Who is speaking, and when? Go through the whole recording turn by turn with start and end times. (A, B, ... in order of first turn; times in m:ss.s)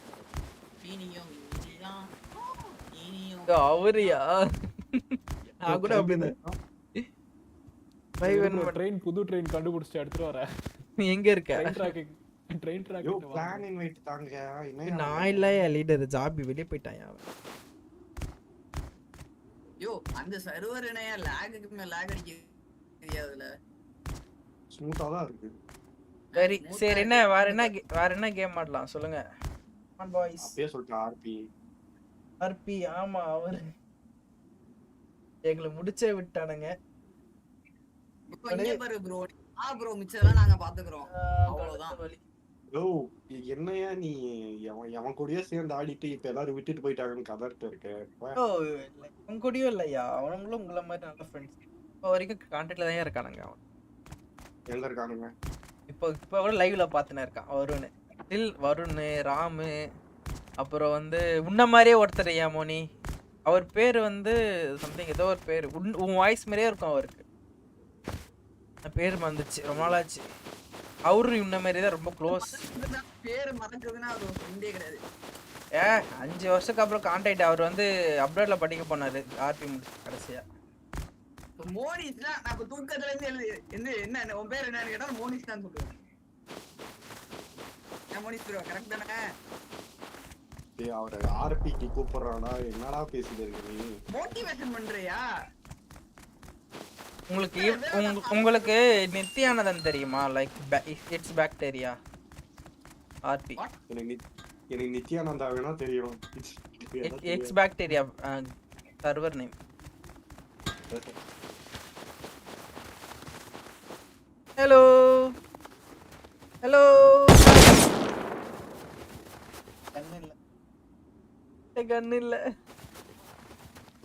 0:00.8-0:04.2 A
0:03.5-0:05.2 B
0:05.4-0:06.6 C
0:05.7-0:06.3 B
0:08.2-0:08.8 B
0:08.2-0:10.4 D
0:11.0-0:11.9 B
0:11.6-0:13.6 D
0:13.0-0:15.6 C
0:14.8-0:17.2 B
0:19.8-0:23.5 A
0:24.7-0:25.5 C
0:26.3-0:27.7 A
0:26.4-0:29.2 B
0:30.0-0:30.5 B
0:30.4-0:31.4 C
0:32.4-0:33.6 B
0:35.5-0:36.7 B
0:38.3-0:42.0 A
0:38.5-0:38.8 B
0:41.1-0:42.2 B
0:42.7-0:44.2 C
0:44.7-0:48.4 C
0:48.4-0:53.6 B
0:54.7-0:55.3 C
0:55.9-0:59.7 B
1:00.6-1:02.8 B
1:03.5-1:07.2 B
1:08.8-1:10.2 B
1:09.7-1:10.0 C
1:11.1-1:12.6 B
1:12.3-1:15.0 A
1:15.8-1:20.4 B
1:21.6-1:26.0 A
1:28.1-1:29.2 A
1:30.8-1:33.9 C
1:34.1-1:35.2 A
1:37.3-1:42.0 B
1:37.6-1:38.9 A
1:43.3-1:43.6 B
1:43.9-1:44.2 C
1:44.7-1:47.5 C
1:47.0-1:48.5 B
1:49.0-1:49.5 B
1:50.9-1:51.2 C
1:54.6-1:55.3 B
1:56.6-1:57.9 B
1:59.9-2:00.3 B
2:01.7-2:02.4 B